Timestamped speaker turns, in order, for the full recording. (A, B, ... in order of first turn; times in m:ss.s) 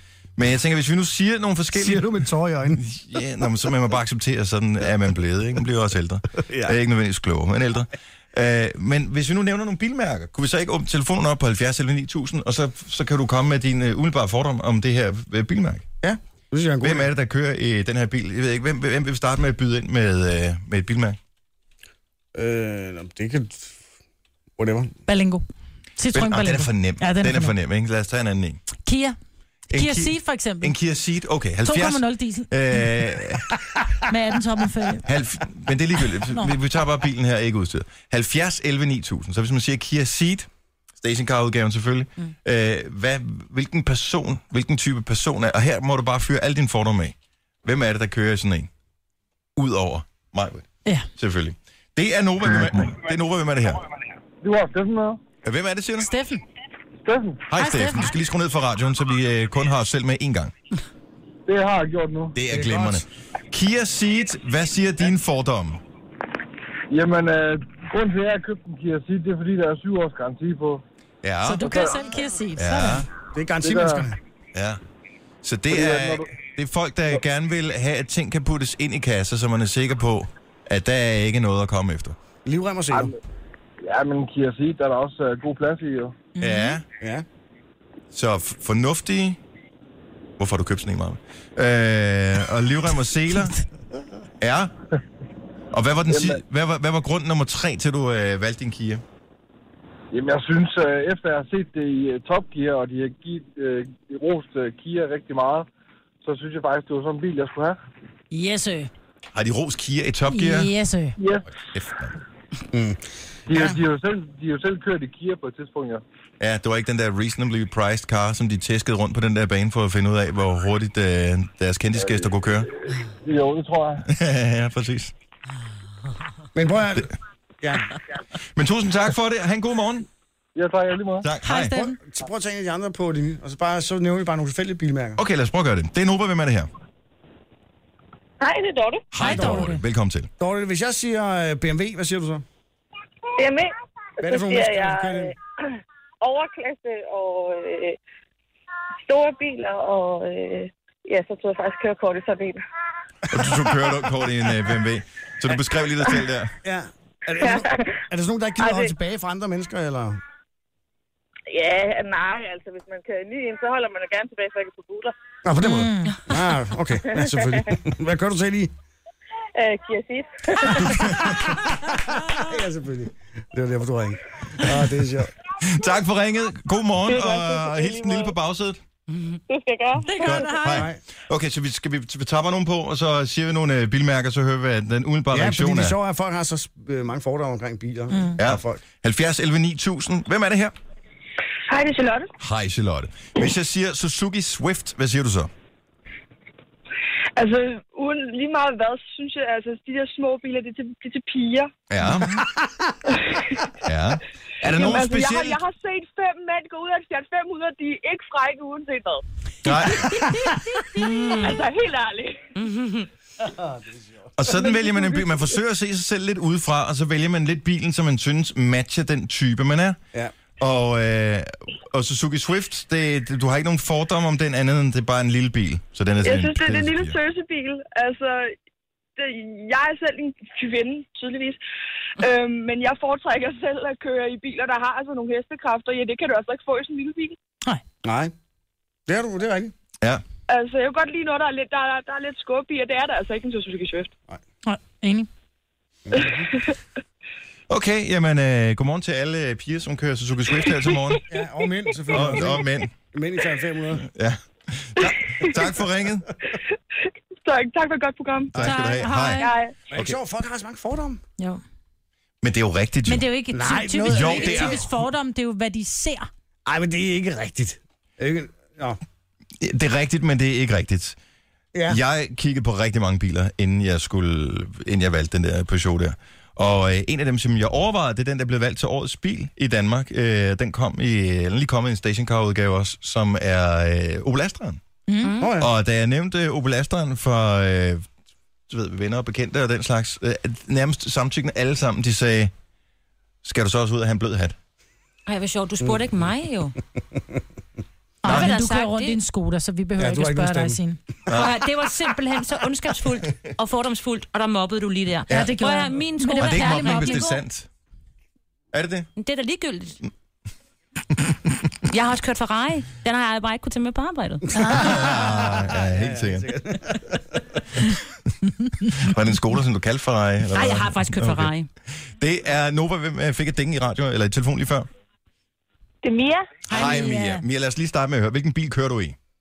0:00.4-0:02.0 A
0:01.7-0:02.8 B
0:02.8-0:15.8 A
0:06.4-0:06.7 B
0:16.0-0:17.1 B
0:16.8-0:21.2 A
0:22.3-0:23.8 B
0:24.6-0:24.9 B
0:25.1-0:25.4 C
0:26.0-0:27.5 C
0:26.1-0:28.6 A
0:28.8-0:29.2 C
0:29.7-0:33.6 A
0:29.7-0:30.8 C
0:31.6-0:33.0 C
0:34.0-0:35.0 C
0:35.0-0:40.5 A
0:36.3-0:36.6 C
0:41.0-0:47.1 A
0:47.6-0:48.7 A
0:49.6-0:50.6 A
0:51.2-0:53.8 A
0:54.4-0:55.2 D
0:55.4-0:56.1 A
0:56.0-0:56.4 C
0:57.0-0:57.5 D
0:57.5-1:00.5 A
0:57.6-0:58.1 C
1:01.5-1:02.4 D
1:02.3-1:05.8 A
1:02.5-1:03.0 B
1:06.9-1:10.8 D
1:11.2-1:11.7 A
1:11.4-1:13.0 C
1:11.6-1:12.0 D
1:12.6-1:13.1 A
1:13.3-1:14.2 B
1:13.6-1:14.1 D
1:14.5-1:14.8 A
1:15.4-1:22.2 A
1:15.7-1:16.2 D
1:22.4-1:23.1 B
1:23.8-1:26.2 D
1:26.4-1:26.8 C
1:26.4-1:26.8 A
1:27.0-1:27.2 B
1:28.1-1:29.4 A
1:30.4-1:33.6 A
1:34.4-1:34.7 A
1:35.7-1:39.0 A
1:36.1-1:36.4 D
1:40.1-1:45.7 D
1:46.2-1:47.8 D
1:48.3-1:48.9 C
1:49.3-1:50.7 A
1:50.3-1:51.2 C
1:51.2-1:51.5 D
1:51.7-1:52.1 A
1:52.7-1:53.8 B
1:53.5-1:56.0 D
1:56.4-2:02.7 A
2:02.0-2:04.1 D
2:04.0-2:05.1 A
2:06.5-2:07.9 B
2:08.5-2:10.0 A
2:10.6-2:11.3 D
2:11.2-2:11.8 A
2:11.4-2:12.0 C
2:11.7-2:15.2 B
2:15.2-2:16.7 A
2:18.4-2:19.1 E
2:19.1-2:20.3 A
2:19.2-2:19.8 C
2:19.2-2:19.6 B
2:20.4-2:22.4 B
2:23.4-2:25.3 E
2:24.2-2:25.3 B
2:26.2-2:28.0 E
2:29.1-2:32.6 E
2:33.3-2:36.5 A
2:33.3-2:33.6 B
2:36.6-2:40.2 B
2:37.4-2:37.8 E
2:38.6-2:38.9 E
2:41.5-2:45.1 E
2:45.4-2:48.7 B
2:45.6-2:46.2 C
2:47.1-2:47.6 E
2:49.5-2:51.3 E
2:50.7-2:55.3 B
2:55.6-2:58.8 A
2:57.1-2:58.3 E
2:59.1-2:59.4 F
2:59.5-3:00.1 E
3:00.0-3:00.9 C
3:00.2-3:06.0 A
3:00.7-3:01.0 B
3:05.3-3:08.8 B
3:08.4-3:10.7 A
3:11.7-3:12.3 G
3:12.4-3:15.5 A
3:17.4-3:21.7 G
3:21.9-3:22.4 A
3:23.1-3:23.6 G
3:23.8-3:25.6 A
3:24.7-3:29.2 G
3:29.6-3:30.5 A
3:30.9-3:31.6 F
3:31.3-3:32.4 G
3:32.6-3:33.1 F
3:33.4-3:34.3 B
3:34.4-3:40.0 A
3:40.6-3:47.2 A
3:46.2-3:48.5 G
3:49.2-3:51.6 G
3:52.2-3:57.4 G
3:58.0-3:58.3 B
3:59.1-3:59.7 B
4:00.5-4:04.1 G
4:04.6-4:05.3 C
4:06.1-4:06.5 B
4:06.2-4:06.7 G
4:07.7-4:11.2 A
4:11.3-4:14.0 B
4:12.1-4:12.9 A
4:14.0-4:16.3 A
4:17.4-4:18.6 G
4:18.5-4:20.2 A
4:18.6-4:19.5 C
4:19.4-4:19.7 G
4:19.9-4:21.2 B
4:22.4-4:23.3 A
4:23.0-4:26.3 C
4:23.5-4:24.8 B
4:24.0-4:24.8 A
4:26.6-4:29.0 B
4:29.6-4:31.2 A
4:31.7-4:32.0 B
4:31.9-4:44.8 A
4:45.1-4:45.3 C
4:45.2-4:45.5 F
4:45.4-4:45.7 B
4:45.6-4:48.1 A
4:48.7-4:52.5 A
4:53.4-4:54.6 A
4:55.3-4:56.8 F
4:58.2-5:01.0 C
4:58.2-4:58.5 A
4:58.2-4:59.2 F
5:00.0-5:00.8 B
5:01.3-5:01.5 A
5:01.3-5:07.4 F
5:05.3-5:07.3 C
5:06.4-5:07.7 A
5:08.7-5:09.1 A
5:09.2-5:10.0 F
5:11.2-5:11.7 A
5:11.9-5:14.6 F
5:14.6-5:14.8 C
5:14.6-5:17.6 B
5:14.7-5:16.5 A
5:18.8-5:24.9 A
5:20.5-5:21.7 F
5:26.0-5:26.6 E
5:26.7-5:29.2 A
5:26.7-5:27.4 C